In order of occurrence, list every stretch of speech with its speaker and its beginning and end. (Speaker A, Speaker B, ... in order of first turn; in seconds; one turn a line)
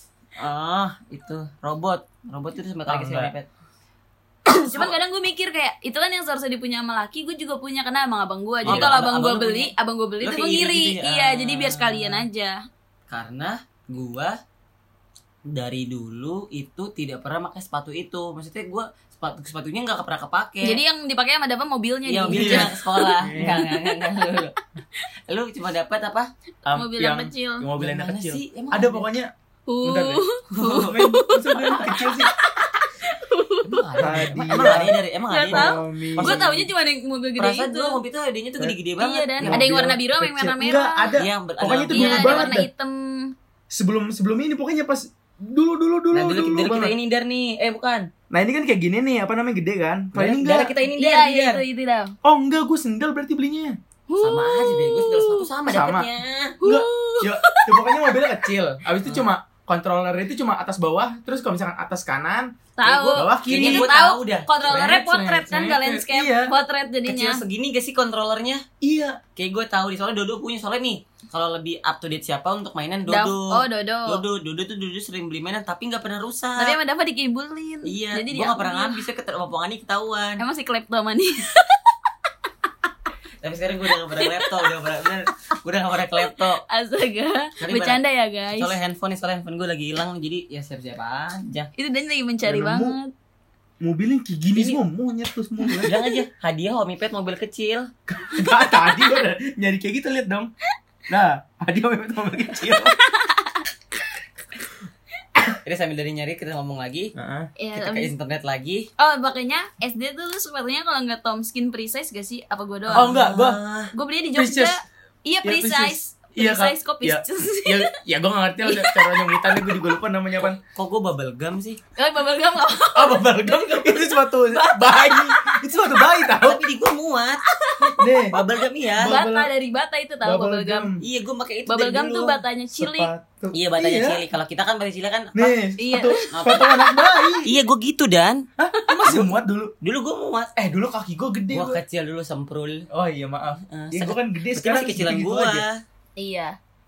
Speaker A: 0.4-3.5
Speaker B: 2.9-3.3
Speaker C: 4.5-12.6
Speaker A: 4.6-5.0
Speaker B: 8.6-9.0
Speaker A: 8.7-12.2
Speaker A: 13.1-14.4
Speaker A: 15.5-20.8
Speaker C: 20.6-24.4
Speaker A: 22.1-24.5
Speaker B: 22.3-22.7
Speaker B: 23.2-23.6
Speaker A: 25.3-26.3
Speaker B: 26.7-29.3
Speaker C: 26.7-27.7
Speaker A: 27.8-29.1
Speaker C: 29.7-38.0
Speaker B: 29.8-30.2
Speaker A: 30.5-31.0
Speaker B: 30.7-32.3
Speaker A: 33.6-36.7
Speaker B: 34.0-35.0
Speaker B: 35.5-36.4
Speaker A: 37.4-39.8
Speaker C: 39.0-41.1
Speaker B: 39.4-42.7
Speaker A: 41.2-42.6
Speaker C: 41.9-43.3
Speaker B: 43.7-47.0
Speaker A: 46.1-48.1
Speaker B: 48.3-50.8
Speaker A: 50.1-51.6
Speaker C: 50.8-52.1
Speaker B: 52.2-53.8
Speaker C: 54.1-55.5
Speaker A: 54.2-56.6
Speaker B: 55.7-56.1
Speaker C: 56.6-58.5
Speaker B: 56.6-62.5
Speaker C: 62.8-67.4
Speaker A: 62.9-64.7
Speaker B: 63.1-63.9
Speaker B: 64.6-66.5
Speaker A: 67.1-68.6
Speaker B: 68.8-69.2
Speaker A: 69.4-76.8
Speaker C: 73.1-74.2
Speaker C: 76.6-79.0
Speaker A: 77.9-80.4
Speaker C: 80.4-81.8
Speaker A: 83.4-86.6
Speaker C: 84.1-84.8
Speaker C: 86.2-88.8
Speaker A: 87.6-88.0
Speaker A: 88.5-91.7
Speaker C: 91.8-93.1
Speaker B: 92.5-93.0
Speaker B: 93.8-95.9
Speaker C: 95.6-96.2
Speaker A: 95.9-97.9
Speaker B: 98.1-100.5
Speaker B: 101.1-103.0
Speaker C: 102.7-103.7
Speaker A: 105.6-107.1
Speaker B: 107.2-107.5
Speaker C: 107.6-108.1
Speaker A: 107.8-108.9
Speaker C: 109.0-113.2
Speaker B: 112.9-113.6
Speaker A: 112.9-113.9
Speaker C: 113.9-117.9
Speaker B: 114.3-114.8
Speaker B: 115.4-120.6
Speaker C: 118.6-119.9
Speaker A: 120.7-121.8
Speaker C: 122.0-125.7
Speaker B: 123.0-126.6
Speaker A: 126.4-127.4
Speaker C: 127.5-128.1
Speaker B: 127.8-128.4
Speaker A: 128.3-129.2
Speaker B: 128.9-129.5
Speaker C: 129.0-130.9
Speaker B: 130.2-131.0
Speaker A: 131.0-132.4
Speaker C: 131.7-133.1
Speaker B: 132.8-134.2
Speaker A: 133.5-135.6
Speaker B: 135.3-137.6
Speaker C: 135.8-137.4
Speaker A: 136.3-136.7
Speaker A: 137.4-138.5
Speaker B: 138.6-139.7
Speaker C: 138.8-139.2
Speaker A: 139.8-140.5
Speaker B: 140.6-141.8
Speaker A: 141.5-142.9
Speaker B: 142.9-145.7
Speaker A: 143.7-145.8
Speaker C: 146.2-146.6